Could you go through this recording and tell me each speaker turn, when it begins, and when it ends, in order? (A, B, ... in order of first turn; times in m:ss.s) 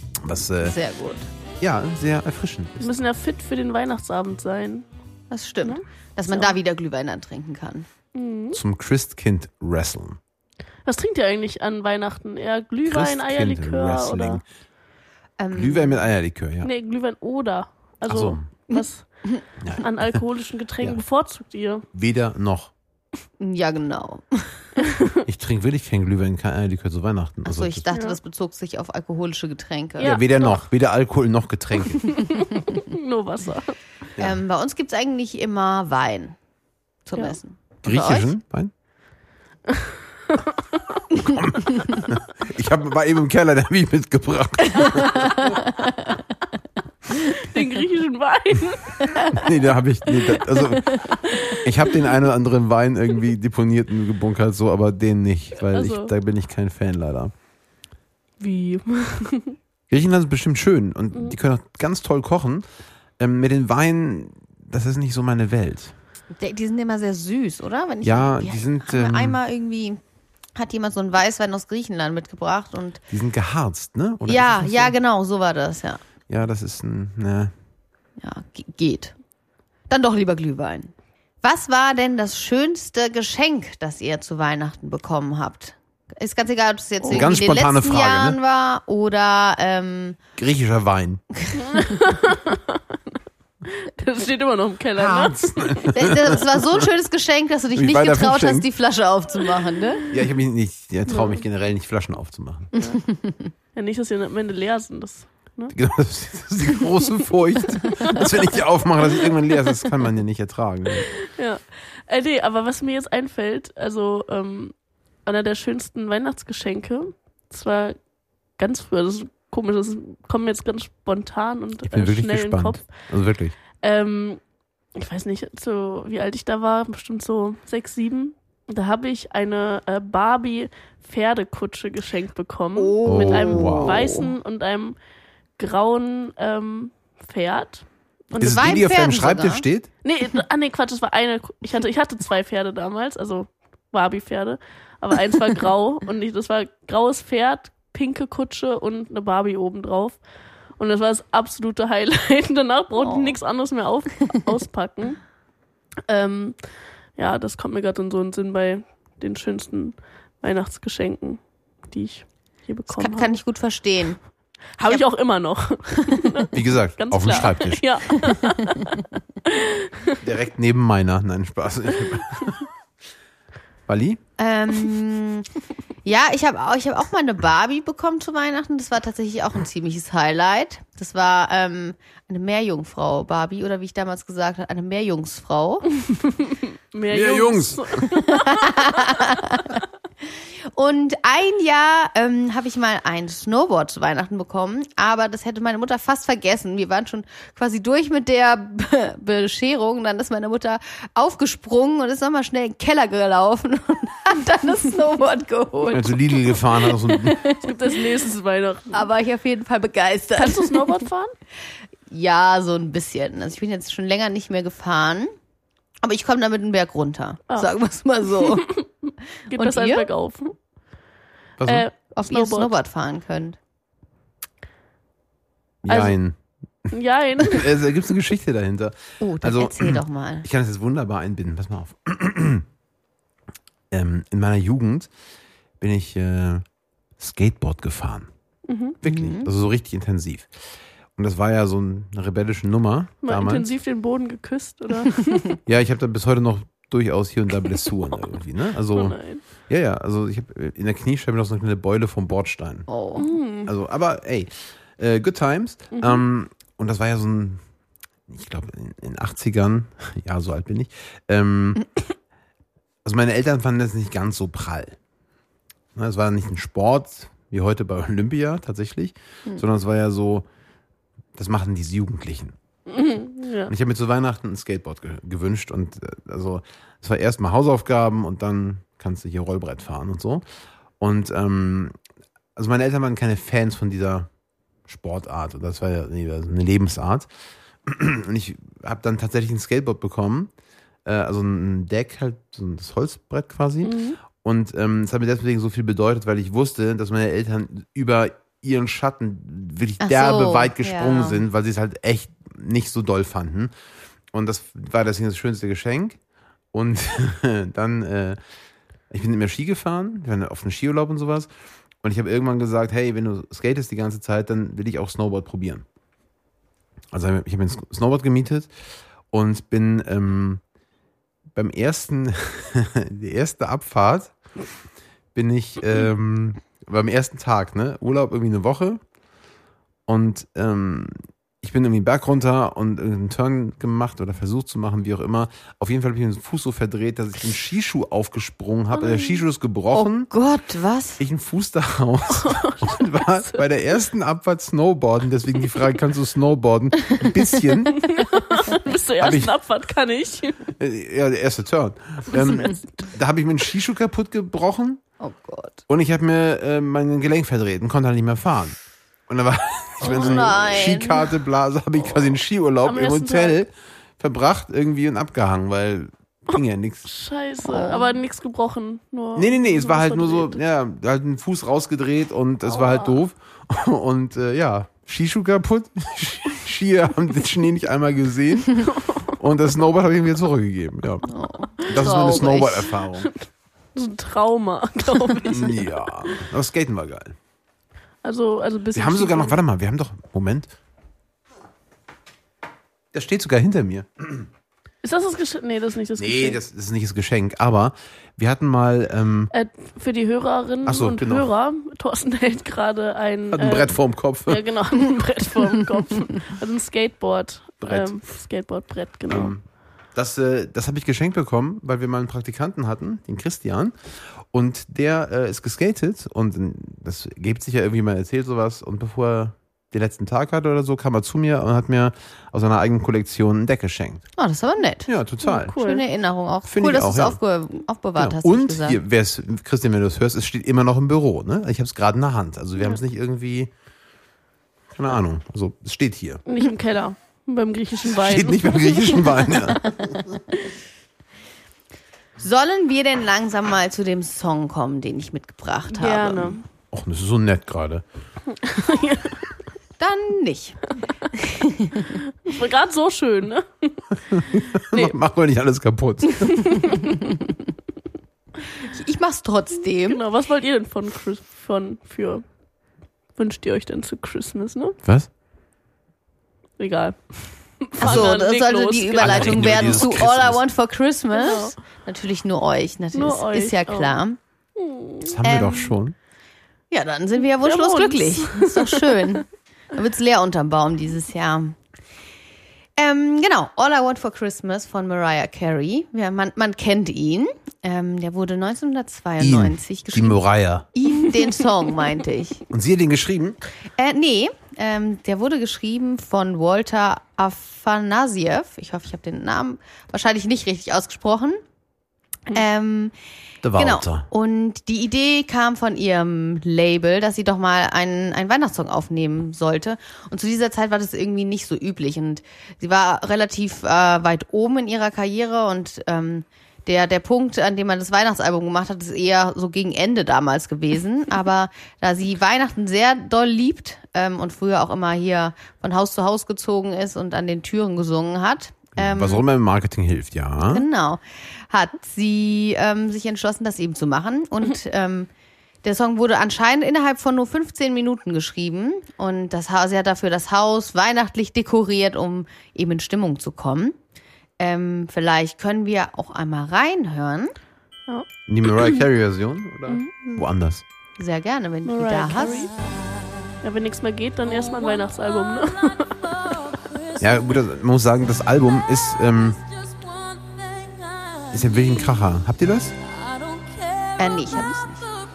0:00.2-0:00.8 A
0:00.6-0:01.3 B
0:01.6-0:03.0 A
0:02.8-0:04.9 C
0:05.3-0:07.9 B
0:05.6-0:06.6 C
0:08.2-0:08.6 C
0:08.5-0:10.2 A
0:10.9-0:14.4 C
0:12.8-0:14.4 A
0:15.4-0:16.0 B
0:15.5-0:16.7 A
0:16.6-0:19.1 C
0:18.1-0:18.4 A
0:18.7-0:19.4 B
0:19.6-0:20.2 A
0:19.8-0:21.9 C
0:21.9-0:22.7 A
0:23.4-0:24.8 B
0:25.2-0:27.8 A
0:27.4-0:30.2 B
0:27.9-0:28.2 C
0:30.0-0:30.7 C
0:30.0-0:32.2 A
0:31.9-0:33.8 C
0:34.2-0:36.4 B
0:37.0-0:38.4 B
0:37.8-0:38.7 A
0:39.8-0:40.8 C
0:41.4-0:45.4 A
0:45.0-0:46.1 B
0:47.1-0:49.2 C
0:49.3-0:57.3 A
0:50.3-0:51.7 C
0:55.6-0:56.1 C
0:58.4-0:59.6 C
0:59.9-1:02.6 A
1:03.2-1:05.9 A
1:06.4-1:10.0 B
1:08.0-1:09.4 A
1:10.6-1:13.0 B
1:13.1-1:14.9 A
1:14.2-1:16.0 B
1:16.3-1:17.5 A
1:18.2-1:19.2 B
1:19.9-1:30.2 B
1:27.0-1:27.3 C
1:27.1-1:28.4 A
1:30.4-1:31.2 A
1:31.4-1:31.8 B
1:31.6-1:32.8 C
1:33.6-1:35.4 C
1:35.0-1:36.6 A
1:35.8-1:40.0 B
1:37.8-1:38.7 A
1:40.1-1:42.7 A
1:41.1-1:41.4 C
1:42.8-1:43.0 C
1:42.8-1:43.5 B
1:43.7-1:45.7 C
1:45.7-1:51.1 A
1:47.9-1:48.2 C
1:51.0-1:54.8 C
1:55.3-1:58.0 C
1:58.6-2:02.9 C
2:01.8-2:03.6 A
2:03.8-2:04.4 C
2:05.0-2:15.0 C
2:12.8-2:14.3 B
2:13.0-2:14.0 A
2:15.6-2:18.8 C
2:18.4-2:19.6 B
2:18.4-2:19.9 A
2:20.0-2:30.2 C
2:30.8-2:35.2 C
2:33.0-2:33.4 B
2:36.1-2:36.6 C
2:37.2-2:43.4 C
2:42.9-2:44.2 B
2:44.8-2:50.2 C
2:46.5-2:47.8 A
2:50.2-2:52.7 A
2:53.9-2:54.2 A
2:54.4-2:55.4 B
2:56.0-3:05.9 B
3:06.1-3:09.2 C
3:07.1-3:07.8 A
3:08.2-3:09.8 B
3:10.7-3:27.8 B
3:25.9-3:27.5 A
3:27.6-3:29.1 C
3:28.9-3:31.0 B
3:30.4-3:31.3 C
3:32.1-3:35.3 B
3:36.0-3:38.7 B
3:38.4-3:38.8 C
3:39.5-3:40.5 C
3:39.6-3:40.1 B
3:41.6-3:41.9 A
3:41.6-3:42.7 C
3:42.1-3:43.6 B
3:45.8-3:52.6 A
3:45.9-3:46.2 C
3:46.9-3:47.7 C
3:49.2-3:50.5 B
3:53.9-3:55.1 A
3:55.8-3:56.6 A
3:57.2-3:58.3 A
3:58.7-3:59.0 C
3:59.0-4:00.5 A
3:59.0-3:59.5 B
4:01.2-4:03.7 A
4:03.2-4:05.6 C
4:05.7-4:12.9 A
4:07.8-4:08.2 C
4:08.9-4:09.4 C
4:12.9-4:13.3 B
4:13.2-4:13.8 C
4:13.6-4:17.6 A
4:15.9-4:16.2 C
4:18.3-4:21.9 A
4:23.0-4:25.0 A
4:26.0-4:30.4 A
4:31.4-4:32.6 A
4:32.9-4:33.7 C
4:33.7-4:40.4 A
4:41.0-4:42.0 A
4:42.6-4:44.3 A
4:44.9-4:47.3 A
4:47.8-4:50.5 A
4:51.1-5:03.7 A
4:53.8-4:54.2 C
5:00.0-5:01.4 B
5:04.3-5:06.2 A
5:06.7-5:08.4 A
5:09.1-5:11.5 A
5:12.0-5:15.8 A
5:17.1-5:18.7 A
5:19.3-5:20.6 A
5:21.6-5:24.3 A
5:25.3-5:29.0 A
5:30.1-5:40.3 A
5:38.9-5:39.4 C
5:39.9-5:41.2 B
5:41.2-5:48.0 A
5:42.3-5:43.7 C
5:47.9-5:50.7 C
5:49.2-5:49.6 A
5:50.8-5:55.0 A
5:52.3-5:52.8 C
5:55.2-5:55.8 B
5:55.9-5:58.8 A
5:59.3-6:07.1 A
6:00.0-6:01.3 B
6:00.0-6:00.6 C
6:02.0-6:03.6 C
6:07.1-6:10.6 C
6:07.6-6:08.2 B
6:09.4-6:21.3 A
6:12.6-6:13.2 C
6:18.9-6:19.2 C
6:21.3-6:23.0 B
6:21.8-6:23.4 C
6:21.8-6:23.3 A
6:24.0-6:25.9 C
6:25.4-6:27.4 A
6:28.2-6:29.6 C
6:29.0-6:30.7 A
6:33.1-6:34.5 A
6:35.0-6:36.6 C
6:36.2-6:39.5 A
6:39.5-6:49.5 C
6:40.8-6:41.5 A
6:43.5-6:44.6 A
6:47.8-6:48.2 A
6:49.3-6:49.6 A
6:50.2-6:53.9 A
6:54.5-7:04.2 A
7:04.4-7:05.1 B
7:05.1-7:05.8 A
7:05.4-7:06.0 C
7:05.7-7:09.0 B
7:06.7-7:07.4 A
7:08.2-7:13.7 A
7:15.0-7:16.4 A
7:16.5-7:19.6 C
7:18.1-7:20.2 A
7:22.4-7:26.6 B
7:25.9-7:26.6 C
7:26.9-7:28.0 A
7:28.6-7:29.4 C
7:30.0-7:32.2 B
7:32.2-7:34.1 C
7:34.3-7:37.0 A
7:36.4-7:37.3 C
7:38.8-7:40.2 B
7:40.0-7:42.4 C
7:43.4-7:45.0 C
7:46.8-7:50.2 C
7:48.0-7:54.4 B
7:48.0-7:48.3 A
7:49.2-7:50.6 A
7:51.3-7:51.8 C
7:53.1-7:54.2 C
7:54.8-7:55.4 C
7:55.2-7:56.2 A
7:55.4-7:55.8 B
7:56.9-8:01.8 B
7:57.6-7:59.2 C
8:03.0-8:10.4 B
8:09.4-8:10.9 A
8:10.9-8:12.6 B
8:12.7-8:13.6 A
8:14.0-8:21.6 B
8:22.5-8:23.1 B
8:23.6-8:24.3 A
8:23.8-8:49.4 B
8:49.0-8:50.8 A
8:50.6-8:55.3 B
8:55.8-9:04.0 B
9:04.6-9:07.5 B
9:08.1-9:09.0 C
9:08.5-9:10.8 A
9:11.2-9:12.7 B
9:11.8-9:12.7 C
9:13.6-9:16.5 C
9:17.2-9:19.6 A
9:21.5-9:22.9 A
9:24.2-9:25.1 B